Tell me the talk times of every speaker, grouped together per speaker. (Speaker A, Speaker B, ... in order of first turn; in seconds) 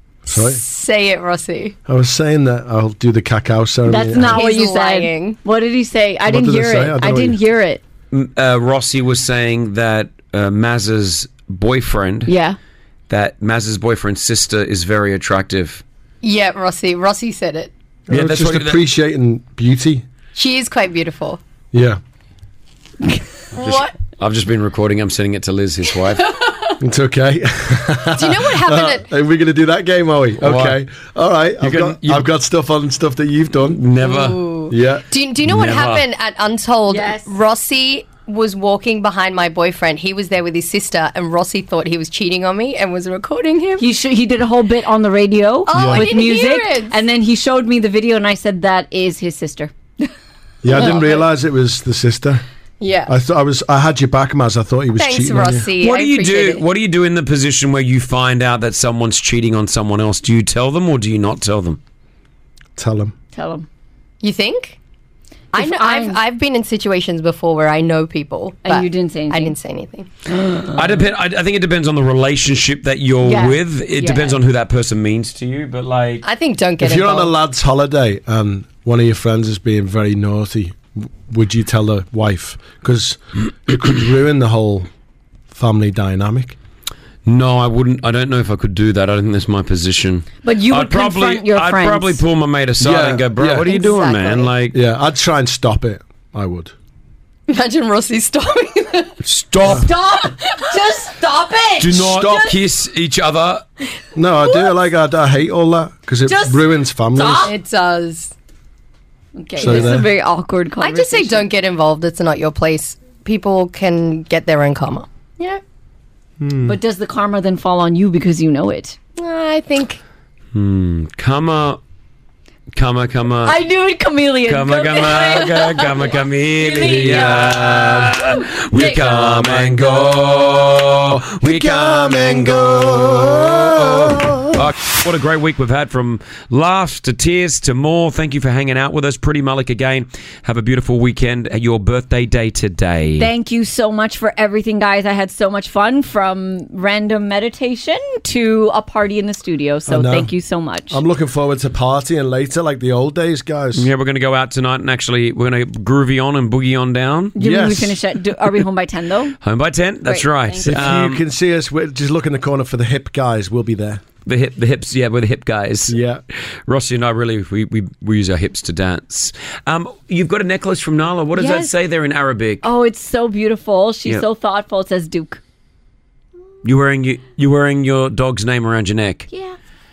Speaker A: 0.3-0.6, 1.9-4.4, 6.3-7.4, 18.1-20.1, 21.7-22.0, 26.8-33.9, 34.7-35.0, 45.7-46.0, 50.6-52.4, 53.1-55.7, 62.8-63.1, 76.8-84.9, 85.5-86.6, 92.8-93.8, 94.7-96.7, 102.0-102.5, 104.2-107.5, 109.6-110.1, 116.4-116.8, 126.8-128.2, 128.8-130.3, 131.1-134.6, 149.9-150.3, 150.9-153.9, 157.4-158.0, 160.6-164.0, 165.9-166.2
Speaker B: 0.3-1.8, 4.3-5.4, 16.2-17.7, 20.4-21.4, 23.6-23.9, 28.2-29.1, 34.0-43.9, 45.7-47.0, 50.7-51.3, 52.8-53.1, 55.0-56.6, 64.2-64.8, 65.5-70.1, 76.2-77.3, 93.7-94.5, 97.5-99.2, 104.5-104.8, 107.4-108.3, 110.8-115.6, 119.2-120.0
Speaker C: 3.9-7.8, 12.3-12.6, 36.9-37.3, 43.8-49.7, 63.4-63.7, 65.5-66.2, 68.6-69.6, 70.3-70.8, 73.2-74.4, 90.4-92.2, 99.7-102.5, 106.3-107.6, 109.4-111.5, 116.6-119.0, 123.5-129.0, 143.2-151.0, 157.4-159.4, 160.1-160.9, 171.4-171.7, 172.6-175.4, 179.3-179.6
Speaker D: 8.1-12.3, 13.1-15.8, 18.1-18.8, 23.6-26.3, 30.4-30.8, 31.6-32.3, 33.7-34.4, 35.4-36.1, 55.8-61.8, 70.7-76.3, 87.2-94.8, 99.2-100.0, 101.8-103.7, 120.5-121.8, 122.7-123.6, 124.5-143.3, 153.8-157.4, 159.4-161.2, 164.3-166.0, 166.7-172.7, 176.6-179.3